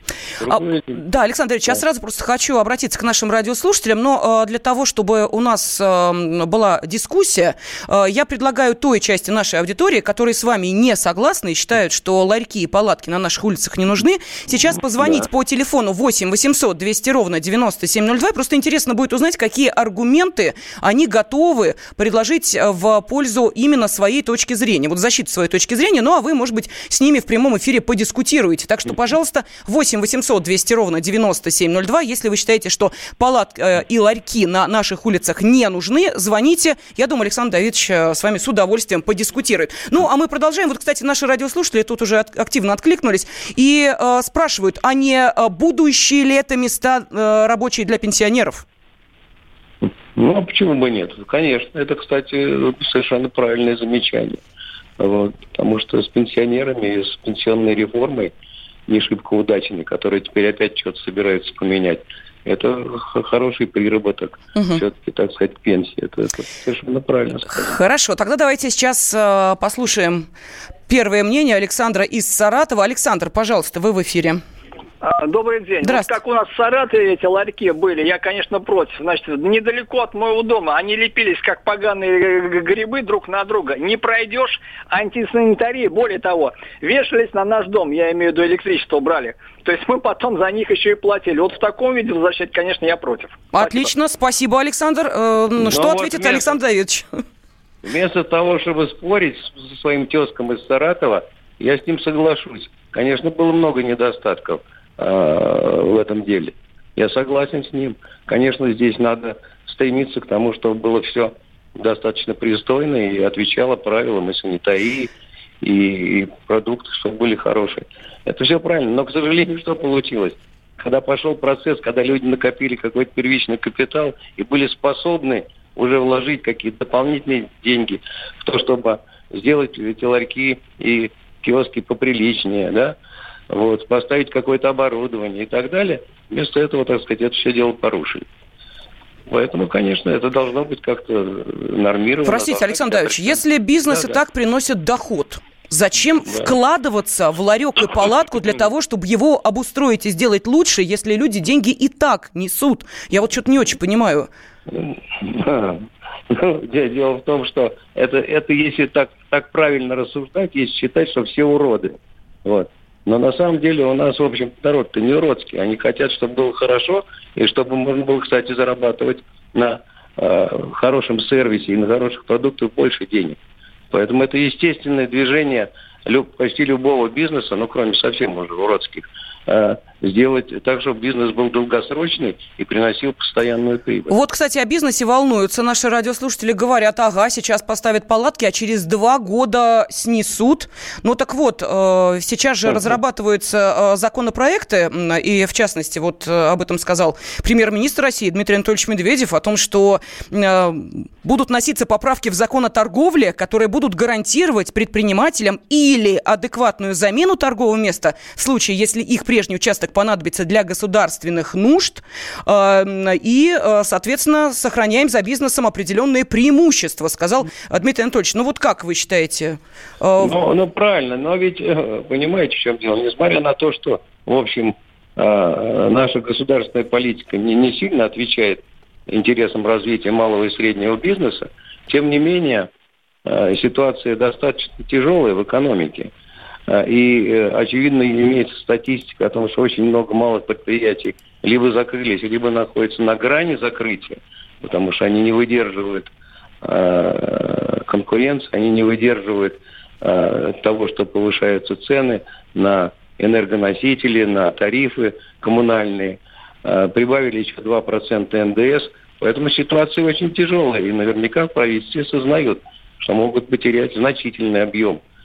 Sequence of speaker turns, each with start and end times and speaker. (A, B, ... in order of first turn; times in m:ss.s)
0:00.4-0:01.0 A
0:00.5-0:48.6 B
0:49.8-0:54.4 A
0:55.0-0:58.3 A
0:58.9-1:07.7 A
1:04.5-1:04.8 B
1:07.5-1:10.3 B
1:10.9-1:14.4 B
1:15.0-1:33.8 C
1:15.8-1:16.1 B
1:33.5-1:37.1 B
1:35.6-1:36.6 A
1:37.8-1:55.1 A
1:55.6-2:13.0 A
2:13.5-2:18.2 A
2:19.3-2:24.2 A
2:22.2-2:34.3 B
2:34.7-2:53.4 A
2:53.9-3:04.1 A
3:04.1-3:40.4 B
3:40.2-3:52.7 A
3:53.3-3:56.1 A
3:56.7-4:06.1 A
4:06.6-4:25.0 A